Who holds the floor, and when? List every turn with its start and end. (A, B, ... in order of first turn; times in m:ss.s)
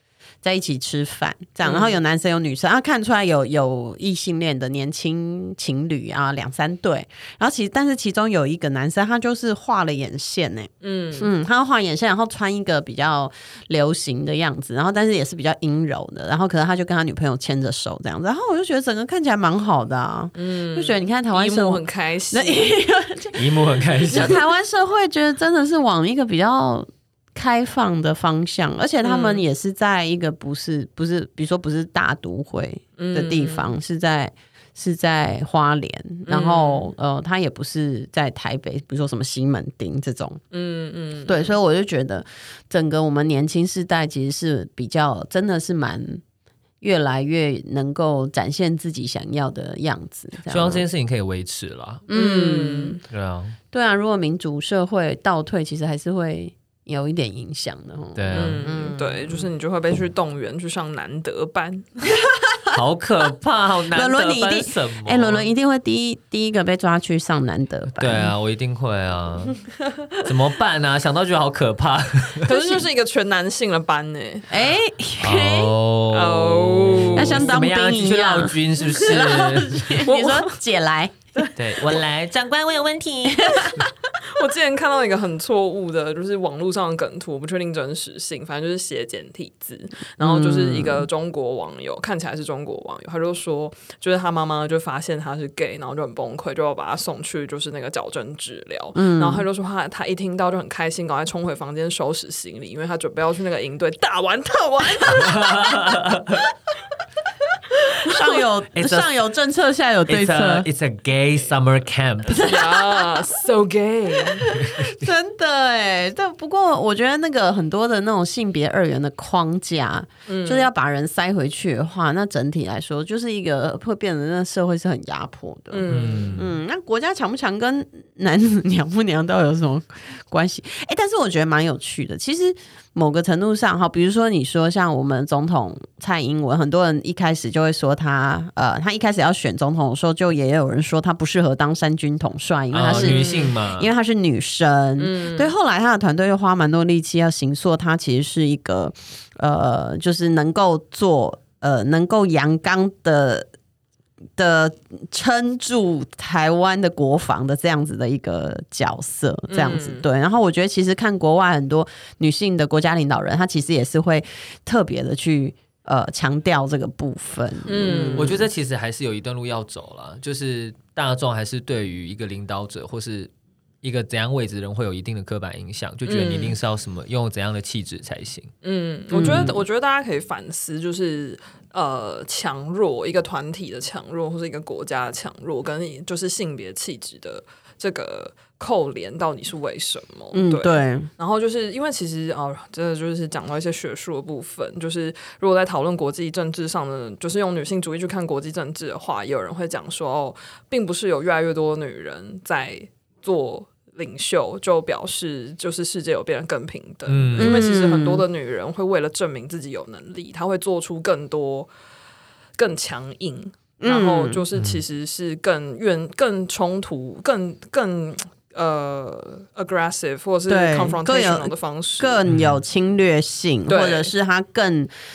0:00.4-0:40.4 A
0:01.6-0:02.0 B
0:10.8-0:11.3 B
0:20.4-0:22.7 B
0:23.4-0:24.4 C
0:29.0-0:29.4 B
0:33.0-0:33.7 B
0:36.3-0:36.9 B
0:40.5-0:41.6 B
0:41.3-0:46.2 A
0:46.8-0:50.8 A
0:50.5-0:52.1 C
0:52.1-0:53.0 A
0:52.1-0:53.0 B
0:53.1-0:53.6 C
0:53.7-0:59.5 A
0:58.2-0:58.7 C
0:58.3-1:01.9 B
1:02.2-1:02.7 A
1:02.7-1:05.5 C
1:03.9-1:08.3 A
1:08.0-1:09.6 C
1:10.2-1:12.5 C
1:12.5-1:14.5 B
1:12.5-1:12.8 A
1:14.5-1:15.7 A
1:15.2-1:20.0 C
1:16.1-1:17.5 B
1:17.2-1:21.5 A
1:19.2-1:20.6 B
1:21.6-1:23.9 C
1:23.3-1:23.8 A
1:24.2-1:46.0 B
1:30.2-1:31.1 A
1:39.0-1:39.4 A
1:45.2-1:46.4 C
1:48.0-1:50.7 A
1:48.7-1:49.1 C
1:50.1-1:52.5 C
1:52.3-1:53.2 A
1:52.4-1:54.5 B
1:54.3-2:33.5 A
1:54.5-1:55.0 C
2:00.3-2:00.7 B
2:05.7-2:06.4 B
2:05.9-2:06.6 C
2:22.7-2:23.9 C
2:22.9-2:23.5 B
2:25.0-2:25.5 B
2:34.4-2:48.4 A
2:39.5-2:40.0 B
2:47.7-2:48.4 B
2:48.1-2:53.3 C
2:53.8-2:58.5 C
2:56.1-2:56.6 B
2:58.6-3:31.7 B
2:59.1-2:59.6 A
2:59.2-2:59.6 C
3:10.3-3:11.1 A
3:27.1-3:27.7 C
3:27.4-3:28.2 A
3:32.6-3:42.2 B
3:33.8-3:34.4 A
3:40.5-3:44.9 A
3:42.3-3:42.6 C
3:43.7-3:44.1 B